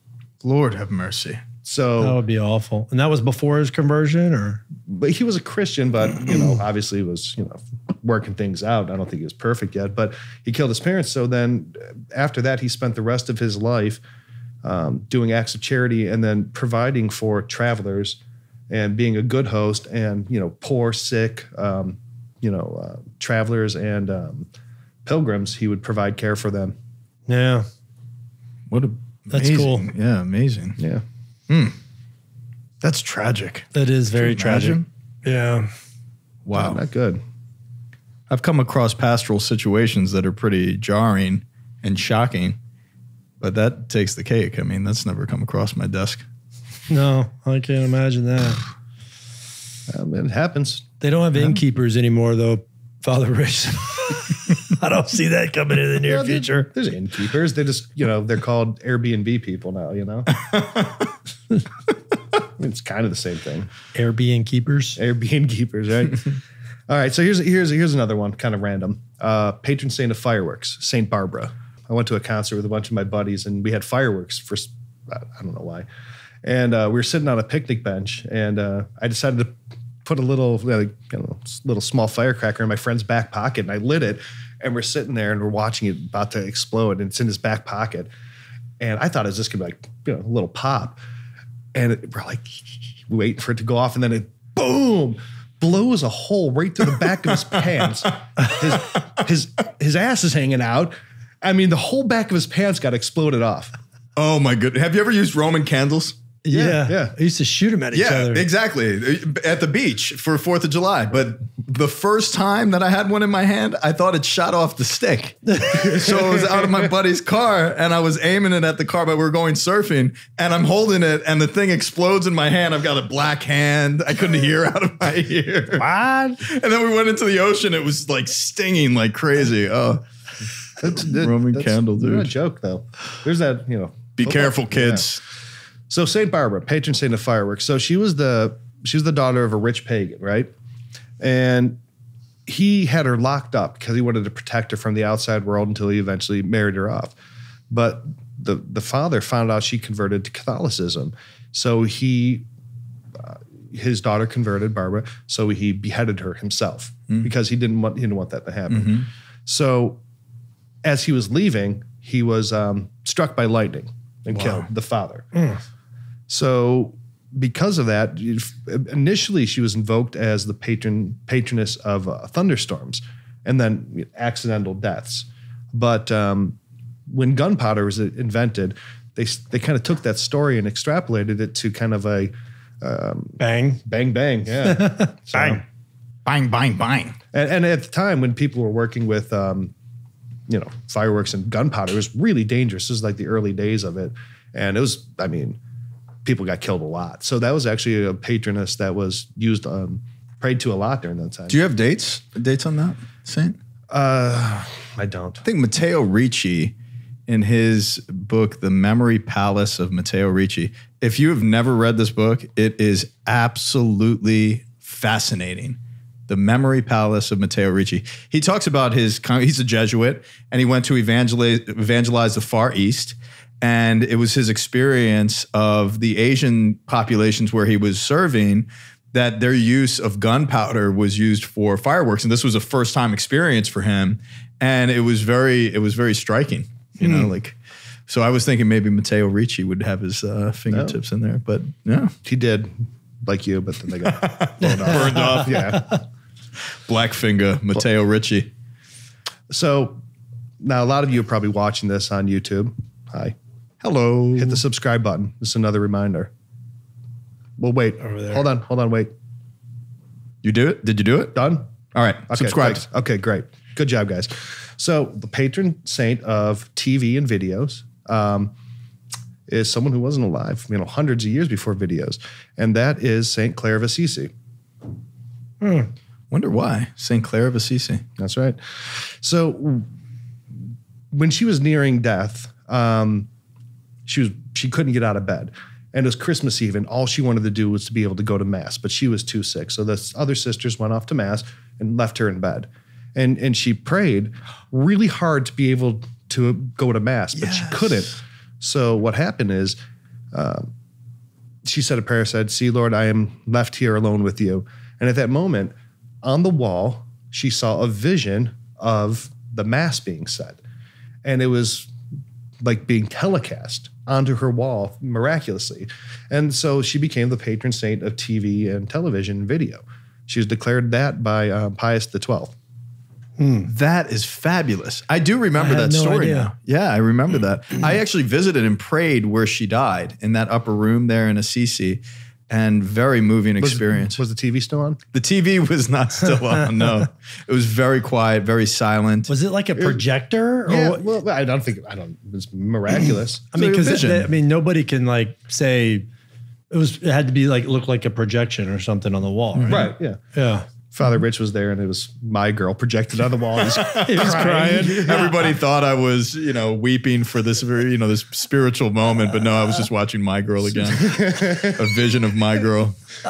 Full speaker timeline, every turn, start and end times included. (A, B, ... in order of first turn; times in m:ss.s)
0:00.4-0:01.4 A
0:01.6-0:02.2 B
0:02.0-0:04.6 C
0:04.9-0:14.0 B
0:14.6-0:18.2 B
0:18.7-0:24.5 B
0:25.0-0:26.8 B
0:27.3-0:27.7 C
0:28.7-0:30.8 A
0:29.3-0:29.9 C
0:30.8-0:31.0 B
0:31.5-0:31.8 A
0:32.8-0:34.8 A
0:33.7-0:35.7 C
0:36.4-0:36.8 A
0:36.5-0:37.2 B
0:38.3-0:42.6 A
0:43.4-0:46.2 A
0:46.9-0:48.6 C
0:49.9-0:50.8 B
0:51.0-0:56.7 C
0:56.0-1:00.3 B
1:00.3-1:01.2 A
1:02.6-1:03.7 B
1:03.9-1:05.0 C
1:05.0-1:15.9 B
1:16.4-1:19.5 B
1:20.0-1:28.1 B
1:28.8-1:31.0 B
1:31.8-1:43.7 B
1:44.2-1:46.2 A
1:46.4-1:48.4 C
1:46.5-1:47.1 B
1:47.9-2:05.9 A
1:55.5-1:55.9 C
1:55.8-1:56.7 B
2:05.8-2:06.4 B
2:06.4-2:10.0 A
2:10.8-2:15.1 B
2:10.8-2:12.3 A
2:14.2-2:15.2 A
2:15.9-2:20.5 B
2:21.2-2:21.8 B
2:22.5-2:27.1 B
2:27.7-2:32.4 B
2:33.2-2:40.0 B
2:38.7-2:39.1 A
2:40.8-2:45.3 B
2:44.3-2:44.7 A
2:45.4-2:45.6 C
2:46.3-2:56.6 B
2:57.1-3:05.6 B
3:03.4-3:03.8 C
3:04.7-3:05.6 C
3:06.3-3:07.2 A
3:07.3-3:09.7 B
3:10.5-3:15.6 B
3:16.2-3:21.6 B
3:21.5-3:23.6 A
3:23.9-3:25.4 B
3:25.4-3:26.7 A
3:27.3-3:57.6 A
3:57.0-3:57.3 C
3:58.1-4:02.2 A
4:00.7-4:01.0 B
4:02.2-4:02.7 B
4:03.2-4:05.9 B
4:04.0-4:05.8 A
4:04.6-4:05.9 C
4:06.9-4:08.5 A
4:09.5-4:10.0 B
4:10.6-4:13.4 B
4:13.8-4:14.6 A
4:14.4-4:16.3 B
4:17.6-4:19.1 B
4:18.0-4:18.4 C
4:20.4-4:21.4 A
4:21.4-4:21.7 B
4:21.9-4:22.8 A
4:22.3-4:28.5 B
4:29.5-4:34.3 B
4:35.6-4:35.9 C
4:36.3-4:38.0 A
4:38.2-4:39.9 B
4:41.1-4:43.3 B
4:44.1-4:59.8 B
4:57.4-4:58.1 A
5:00.3-5:00.7 B
5:01.6-5:10.6 B
5:11.2-5:11.9 B
5:12.6-5:22.6 B
5:23.4-5:23.7 C
5:23.6-5:34.2 A
5:25.6-5:26.5 C
5:33.6-5:35.0 B
5:35.1-5:39.3 A
5:39.3-5:41.0 C
5:40.7-5:43.5 B
5:43.5-5:46.1 C
5:43.5-5:44.3 A
5:46.7-5:50.7 C
5:49.6-5:49.8 A
5:49.7-5:50.2 B
5:50.9-5:55.2 B
5:53.6-6:03.0 A
5:54.0-5:55.3 C
6:01.0-6:01.8 B